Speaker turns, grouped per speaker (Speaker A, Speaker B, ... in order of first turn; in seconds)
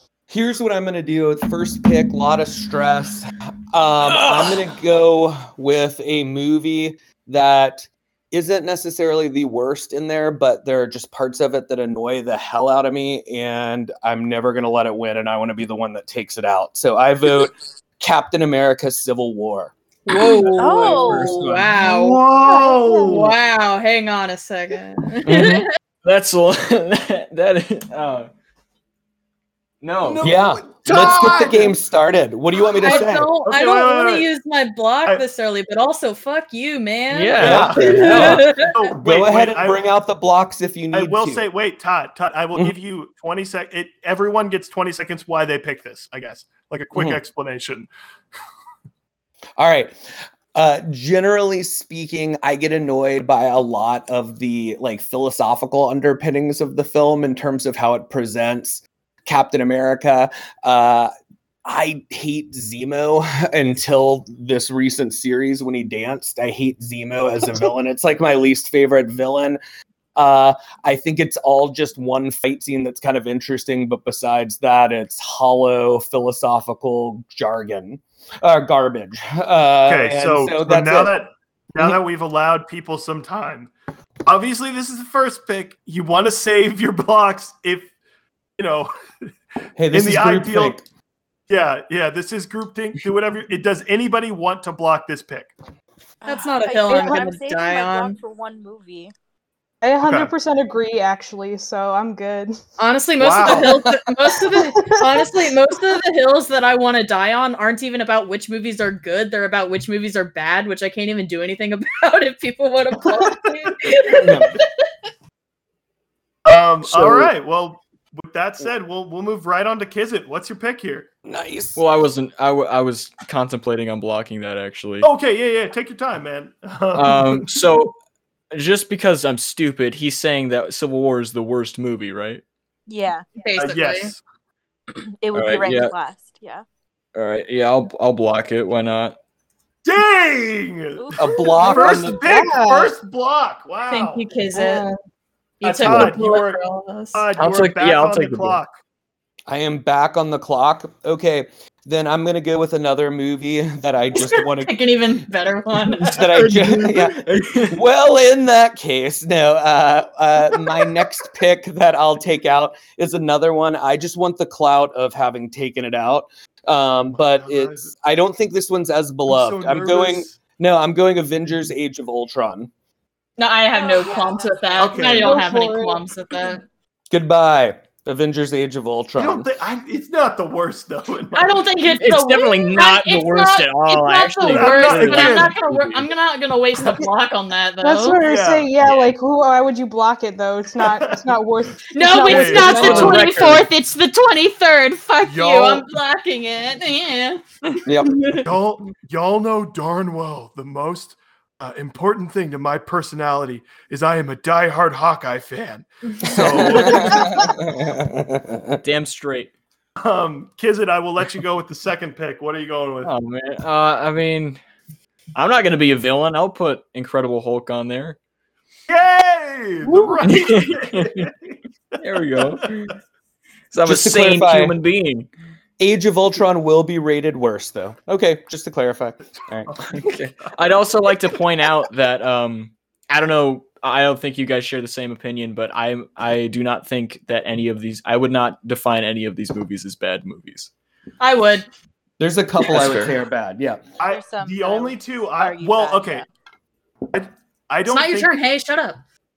Speaker A: 0.3-19.7, 25.2-25.6, 30.2-33.3, 37.4-41.4, 46.9-47.2, 49.6-61.1, 61.6-69.6, 70.2-81.1, 89.8-90.8, 114.1-114.5, 121.2-121.8, 141.2-142.2, 149.5-154.8, 156.0-172.7, 177.1-179.5, 197.8-198.2, 206.3-208.8, 223.8-224.8, 225.8-229.7, 242.2-243.8
Speaker B: 4.1-4.5, 20.1-21.7, 25.2-28.3, 29.8-31.5, 37.1-38.7, 116.8-117.3, 121.8-125.1, 126.9-127.9, 128.5-132.4, 135.3-135.9, 137.1-139.2, 147.4-148.6, 156.1-157.8, 181.9-186.1, 188.8-189.1, 192.6-193.7, 208.8-209.5, 213.0-214.6, 215.3-218.2, 220.2-221.3, 222.0-222.9, 223.7-225.3, 229.9-240.7, 242.7-243.1
Speaker C: 20.1-22.2, 23.1-25.7, 32.8-38.7, 96.2-98.2, 102.8-114.7, 133.4-134.1, 143.9-144.9, 145.6-147.2, 154.1-156.3, 173.4-176.6, 181.3-188.2, 191.9-197.4, 198.0-198.5, 206.2-206.8, 241.2-241.7, 247.9-249.0
Speaker D: 20.5-21.6, 96.2-99.1, 132.9-133.3, 135.1-136.6, 141.0-142.2, 173.8-174.8, 244.0-246.2
Speaker E: 21.7-23.3, 30.0-31.7, 32.9-34.3, 37.4-39.8, 40.9-47.9, 79.8-83.7, 84.2-87.9, 88.6-88.9, 89.9-90.8, 91.5-95.5, 100.0-100.3, 103.2-103.9, 116.4-121.1, 125.0-127.6, 133.6-134.2, 139.8-144.2, 145.6-146.6, 147.1-148.7, 167.1-167.9, 169.3-170.4, 174.8-175.4, 179.2-181.7, 184.5-185.5, 188.1-188.7, 190.8-191.3, 192.2-193.3, 195.2-195.8, 198.4-207.6, 210.0-213.1, 218.9-222.6, 229.7-230.2, 244.0-246.2, 247.1-248.3
Speaker F: 22.4-23.2, 96.9-97.3, 99.8-102.6, 104.5-105.2, 142.2-142.9, 144.5-144.9, 173.8-174.3, 175.0-176.0, 187.8-193.6, 219.8-220.2